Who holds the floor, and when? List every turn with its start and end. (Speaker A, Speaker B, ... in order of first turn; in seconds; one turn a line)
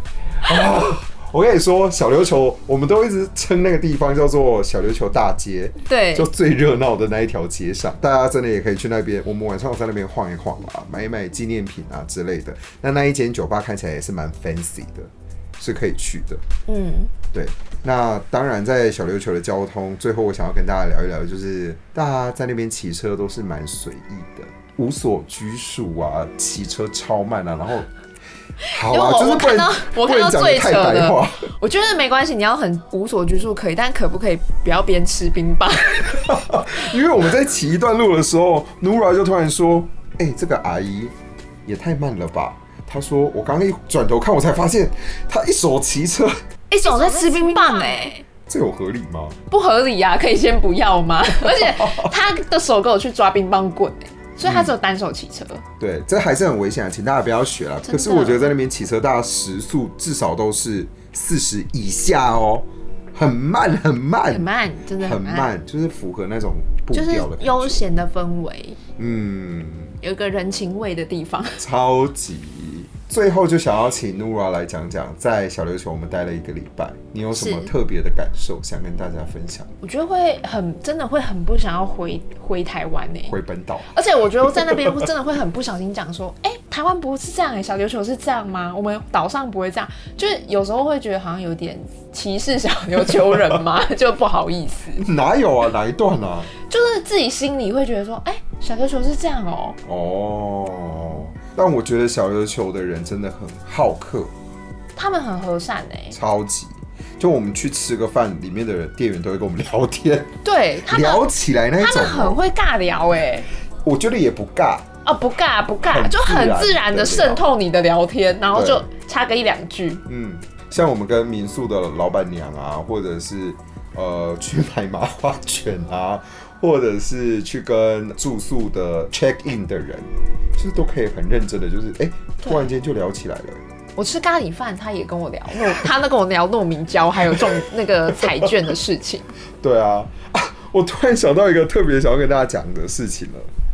Speaker A: 0.4-16.4
Speaker B: 5.9-6.3
Speaker B: 16.7-17.1
Speaker A: 17.3-27.9
Speaker A: 28.7-31.5
Speaker B: 28.7-36.2
Speaker A: 36.1-41.1
Speaker A: 41.6-46.4
Speaker B: 46.7-48.2
Speaker A: 48.5-49.4
Speaker B: 49.5-55.6
Speaker A: 51.5-52.1
Speaker A: 54.4-54.8
Speaker A: 55.8-67.9
Speaker B: 57.9-58.5
Speaker B: 64.3-65.5
Speaker B: 66.9-68.8
Speaker A: 69.0-70.0
Speaker B: 70.0-71.6
Speaker A: 71.6-79.7
Speaker B: 77.3-77.7
Speaker B: 79.8-83.3
Speaker A: 83.3-83.9
Speaker B: 83.9-95.1
Speaker A: 84.5-84.9
Speaker A: 95.0-96.5
Speaker B: 96.7-99.8
Speaker A: 99.9-104.3
Speaker B: 105.0-106.2
Speaker A: 106.1-112.4
Speaker B: 110.4-111.2
Speaker B: 111.8-113.5
Speaker A: 113.8-114.9
Speaker B: 115.0-120.0
Speaker A: 115.8-117.5
Speaker A: 118.5-118.9
Speaker A: 120.1-133.6
Speaker B: 132.4-132.7
Speaker B: 134.0-139.3
Speaker A: 137.3-137.6
Speaker A: 138.2-138.5
Speaker A: 139.6-143.5